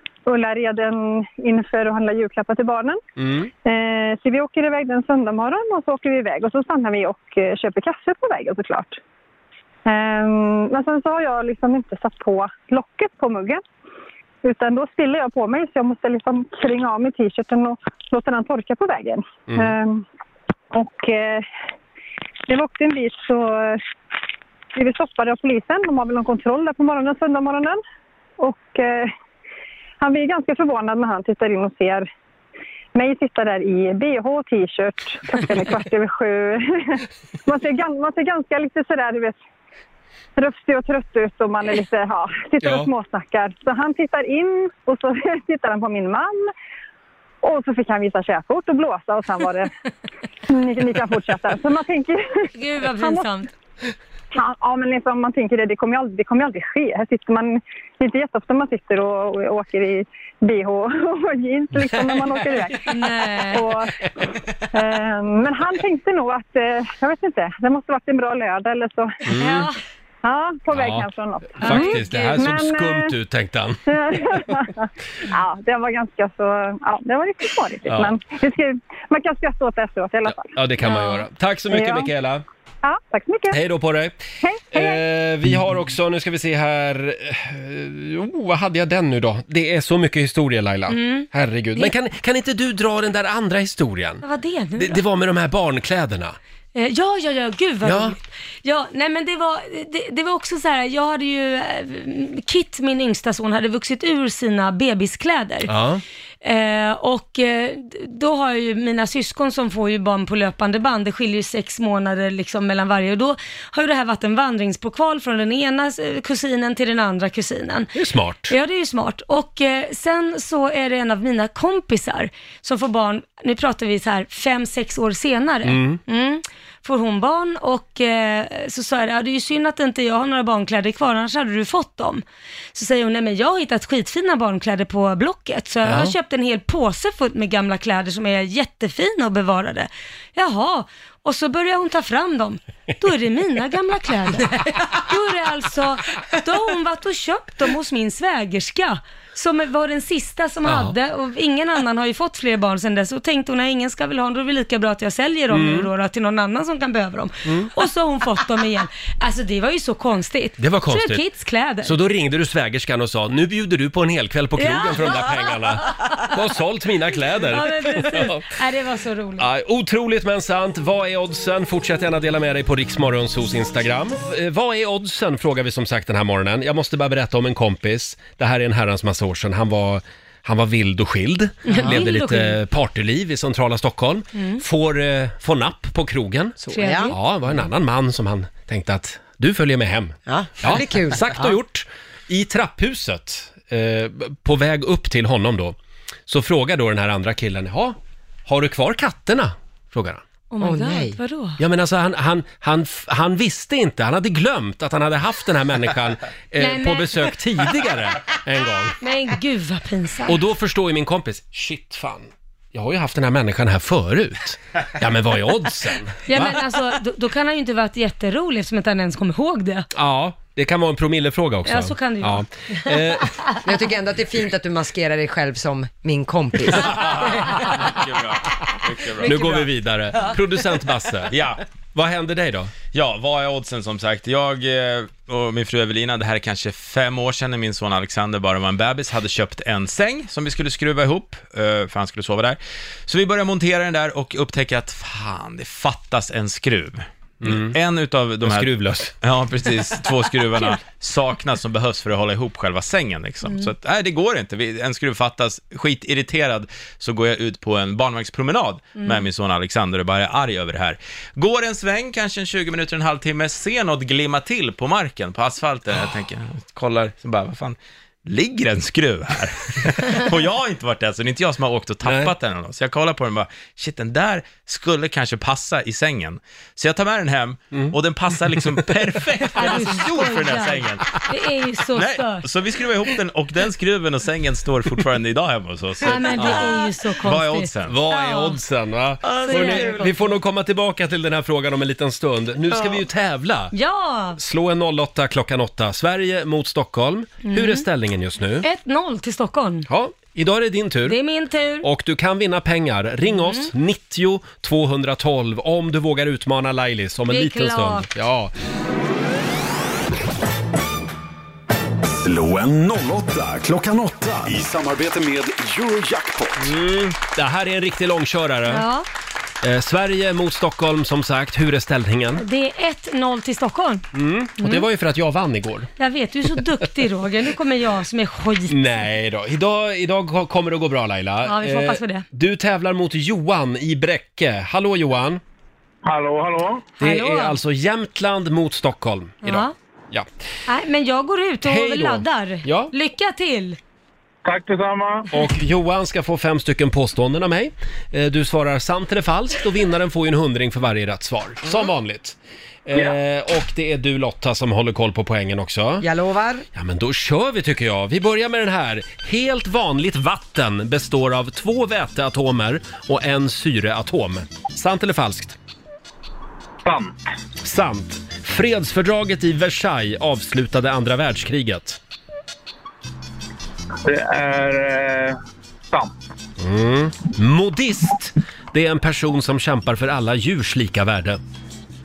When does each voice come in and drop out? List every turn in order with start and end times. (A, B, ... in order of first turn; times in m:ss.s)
0:00.3-0:03.0 A
0:03.2-0:03.5 B
0:03.6-0:09.0 A
0:09.9-0:13.6 A
0:14.4-0:20.0 A
0:19.5-0:19.7 B
0:20.7-0:21.5 A
0:22.5-0:23.8 A
0:24.7-0:27.8 A
0:28.4-0:29.1 A
0:30.0-0:32.1 A
0:33.0-0:39.4 A
0:40.4-0:46.5 A
0:42.6-0:42.9 B
0:47.4-0:49.7 A
0:50.5-0:53.3 A
0:52.6-0:53.5 C
0:54.3-1:03.0 A
1:02.9-1:03.7 C
1:03.5-1:04.1 A
1:04.7-1:09.2 A
1:09.3-1:09.7 B
1:09.4-1:09.8 C
1:10.2-1:13.1 A
1:10.7-1:13.8 B
1:11.6-1:12.4 C
1:13.9-1:20.6 A
1:17.9-1:18.2 B
1:20.4-1:22.4 B
1:20.8-1:21.3 C
1:21.7-1:22.1 A
1:22.8-1:23.6 A
1:23.5-1:34.2 B
1:24.4-1:25.0 A
1:30.9-1:31.9 C
1:34.2-1:35.0 C
1:34.8-1:36.4 B
1:36.8-1:45.7 C
1:37.8-1:38.2 B
1:45.7-1:46.0 B
1:46.4-1:57.9 C
1:58.0-1:58.5 B
1:58.5-2:12.2 C
2:05.6-2:06.0 B
2:12.7-2:42.0 C
2:15.8-2:16.1 B
2:30.6-2:31.0 B
2:35.5-2:35.9 B
2:40.6-2:41.2 B
2:41.8-2:48.6 B
2:44.6-2:46.2 C
2:47.5-2:49.5 C
2:49.4-3:15.8 B
3:01.7-3:02.6 C
3:01.7-3:02.0 D
3:04.4-3:04.6 C
3:06.6-3:07.1 D
3:06.7-3:07.2 C
3:10.3-3:11.5 D
3:16.3-3:18.0 B
3:18.5-3:20.2 B
3:20.5-3:21.6 C
3:20.6-3:21.2 D
3:21.6-3:29.0 B
3:26.6-3:27.3 C
3:29.0-3:30.4 C
3:30.3-3:36.6 B
3:36.3-3:39.9 C
3:39.9-3:43.4 B
3:41.7-3:43.4 C
3:43.6-3:47.5 D
3:46.9-3:49.6 E
3:49.2-3:51.3 B
3:49.2-3:49.6 D
3:51.3-3:51.6 E
3:52.0-3:52.7 B
3:52.9-4:41.2 E
4:07.4-4:07.8 B
4:08.4-4:09.1 B
4:19.0-4:19.2 C
4:32.1-4:32.3 B
4:39.6-4:42.5 C
4:41.9-4:48.0 E
4:46.0-4:48.6 C
4:46.3-4:46.6 B
4:47.9-4:53.7 B
4:49.3-4:50.2 C
4:49.6-4:50.0 D
4:53.7-4:54.4 C
4:54.4-4:58.7 B
4:57.4-4:57.8 C
4:58.6-4:59.9 C
4:59.9-5:01.2 B
5:01.1-5:01.9 C
5:01.8-5:08.5 B
5:03.4-5:03.7 C
5:07.3-5:08.1 C
5:12.1-5:16.7 F
5:16.6-5:18.8 B
5:18.7-5:19.1 C
5:19.6-5:22.4 B
5:22.4-5:24.1 C
5:24.1-5:25.9 B
5:24.6-5:24.8 C
5:26.0-5:28.8 C
5:28.7-5:35.4 B
5:31.4-5:32.2 C
5:36.0-5:36.9 G
5:37.0-5:37.6 C
5:37.0-5:40.3 B
5:39.4-5:39.7 C
5:40.7-5:43.8 C
5:41.6-5:42.9 B
5:44.4-5:45.3 G
5:45.3-5:56.1 B
5:56.0-5:56.6 D
5:56.7-6:05.6 B
6:06.8-6:07.1 G
6:07.6-6:12.0 B
6:14.0-6:15.4 G
6:16.6-6:21.4 B